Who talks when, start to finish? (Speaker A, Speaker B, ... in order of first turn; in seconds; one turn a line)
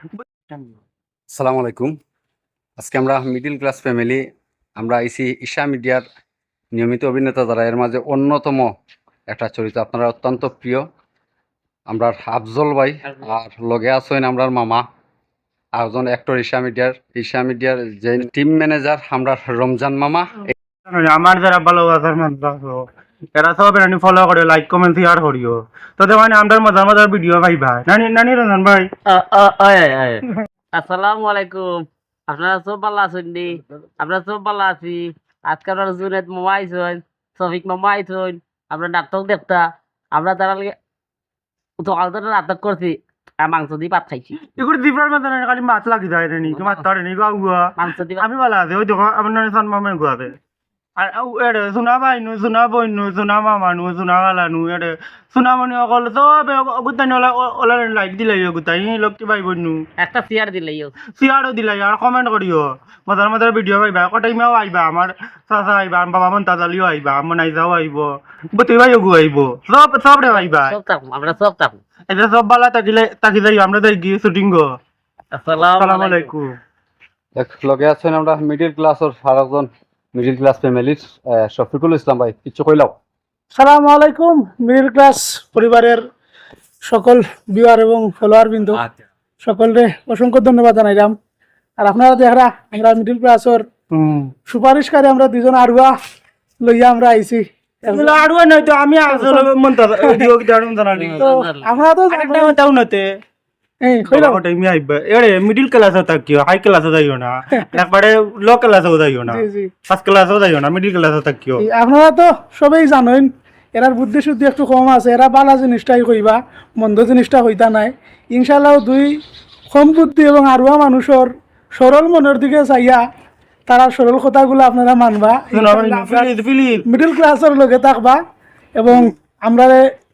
Speaker A: 0.2-0.6
Speaker B: 1.3-1.9
Speaker B: 2.8-4.2
Speaker B: 4.8-6.0
Speaker B: 6.8-8.7
Speaker B: 9.3-10.8
Speaker B: 11.9-14.8
Speaker B: 15.8-20.5
Speaker A: 20.9-22.9
Speaker A: 23.4-28.9
Speaker C: 29.1-31.7
Speaker C: 32.3-40.8
Speaker C: 41.8-44.4
Speaker A: 44.5-50.3
Speaker C: 46.5-46.8
Speaker C: 47.8-48.2
Speaker A: 51.0-59.8
Speaker C: 60.0-61.0
Speaker A: 61.2-70.8
Speaker C: 70.3-71.8
Speaker A: 72.1-74.7
Speaker C: 75.3-76.3
Speaker A: 75.8-76.5
Speaker B: 77.4-82.9
Speaker D: 83.5-86.0
Speaker D: 86.8-88.8
Speaker D: 89.4-91.2
Speaker D: 91.8-93.7
Speaker A: 93.9-94.3
Speaker D: 94.5-95.9
Speaker D: 96.6-98.2
Speaker A: 97.9-101.3
Speaker D: 99.1-99.5
Speaker D: 100.0-100.3
Speaker C: 101.0-101.7
Speaker D: 101.2-102.6
Speaker A: 102.1-103.1
Speaker D: 103.8-104.4
Speaker A: 104.1-111.7
Speaker D: 109.3-109.7
Speaker D: 111.6-119.2
Speaker D: 119.7-123.0
Speaker D: 123.7-126.3
Speaker A: 125.5-126.9
Speaker D: 126.9-128.2
Speaker D: 128.8-129.8